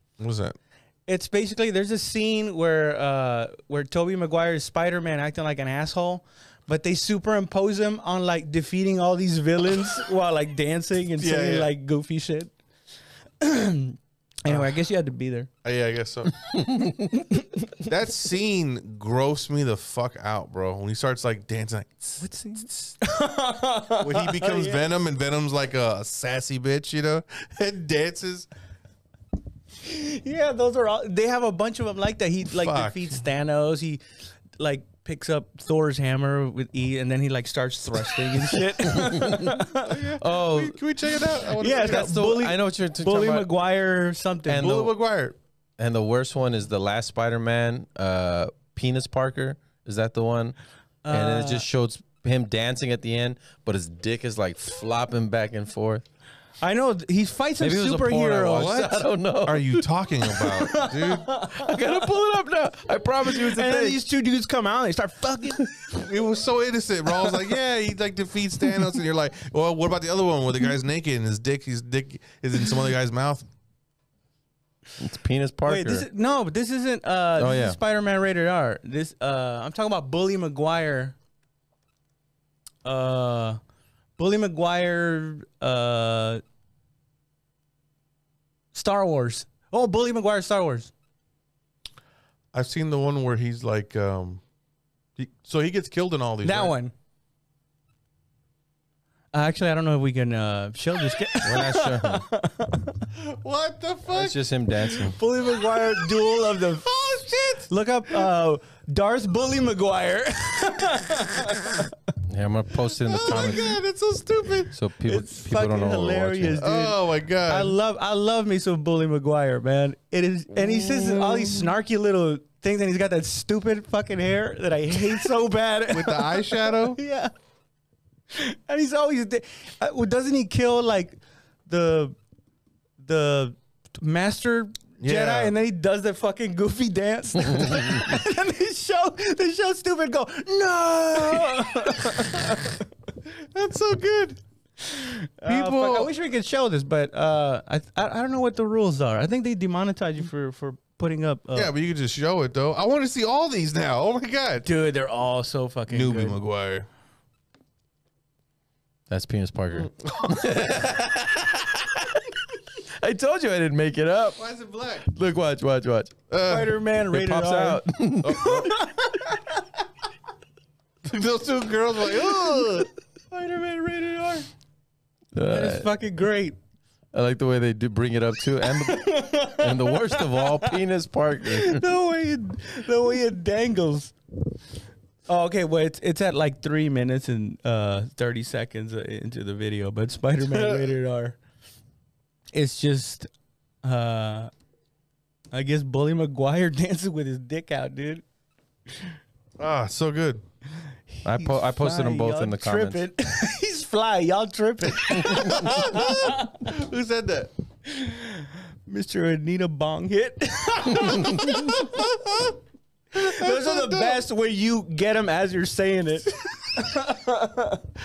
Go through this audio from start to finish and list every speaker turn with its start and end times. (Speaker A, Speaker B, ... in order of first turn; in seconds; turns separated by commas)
Speaker A: 0.2-0.6, Speaker B: 1.1-12.5, Speaker A: 11.2-11.7, Speaker B: 13.4-15.5, Speaker A: 14.5-14.8, Speaker A: 15.6-16.6, Speaker C: 16.5-17.0, Speaker B: 17.1-17.7, Speaker A: 17.8-22.2, Speaker B: 22.2-24.9, Speaker A: 24.0-28.5, Speaker B: 29.8-34.0, Speaker A: 32.5-33.2, Speaker B: 34.6-40.1, Speaker C: 38.8-39.6, Speaker A: 39.9-42.2, Speaker C: 40.2-40.8, Speaker B: 41.6-44.9, Speaker C: 41.8-43.5, Speaker C: 44.5-44.9, Speaker A: 44.6-45.4, Speaker C: 45.8-50.5, Speaker B: 51.0-51.6, Speaker C: 51.1-56.0, Speaker B: 56.6-58.8, Speaker C: 57.6-60.5, Speaker A: 58.5-61.3, Speaker B: 60.3-61.7, Speaker C: 61.2-64.0, Speaker B: 63.3-66.0, Speaker A: 65.9-73.5, Speaker C: 75.0-76.0, Speaker B: 75.7-81.2, Speaker C: 77.3-77.8, Speaker B: 82.8-83.6, Speaker B: 84.2-86.4, Speaker B: 88.7-90.9, Speaker A: 92.5-94.4, Speaker A: 95.2-96.7, Speaker B: 96.4-96.9, Speaker B: 99.3-103.0, Speaker C: 101.4-102.3, Speaker A: 103.1-104.3, Speaker C: 104.1-105.2, Speaker B: 105.1-106.9, Speaker A: 105.6-108.2, Speaker B: 107.6-111.9, Speaker C: 112.3-113.8, Speaker A: 113.0-114.8, Speaker C: 114.7-116.6, Speaker B: 115.0-127.3, Speaker A: 116.5-117.8, Speaker A: 120.6-121.7, Speaker A: 125.9-127.0, Speaker B: 128.3-132.2, Speaker B: 133.0-142.8, Speaker A: 135.0-135.5, Speaker C: 137.6-138.0, Speaker A: 143.2-144.4, Speaker B: 144.9-151.7, Speaker A: 145.4-146.1, Speaker A: 151.5-154.7, Speaker B: 154.6-156.4, Speaker A: 155.9-156.8, Speaker C: 159.1-162.4, Speaker A: 159.9-160.3, Speaker C: 163.0-164.4, Speaker A: 164.3-165.1, Speaker C: 165.1-166.2, Speaker A: 166.3-166.9, Speaker B: 166.4-167.8, Speaker C: 167.1-168.7, Speaker A: 168.2-168.8, Speaker B: 168.3-169.8, Speaker A: 171.0-172.9, Speaker B: 173.3-174.5, Speaker C: 175.3-175.9, Speaker B: 175.5-176.6, Speaker C: 177.1-181.8, Speaker B: 178.8-180.8, Speaker B: 181.5-184.1, Speaker B: 185.3-191.4, Speaker A: 190.4-190.9, Speaker B: 192.5-193.3, Speaker B: 193.8-194.5, Speaker B: 195.5-198.2, Speaker A: 199.6-200.4, Speaker B: 201.1-206.6, Speaker C: 201.2-203.0, Speaker A: 205.1-207.5, Speaker B: 207.8-212.1, Speaker A: 211.2-212.6, Speaker B: 213.1-217.8, Speaker A: 213.1-214.2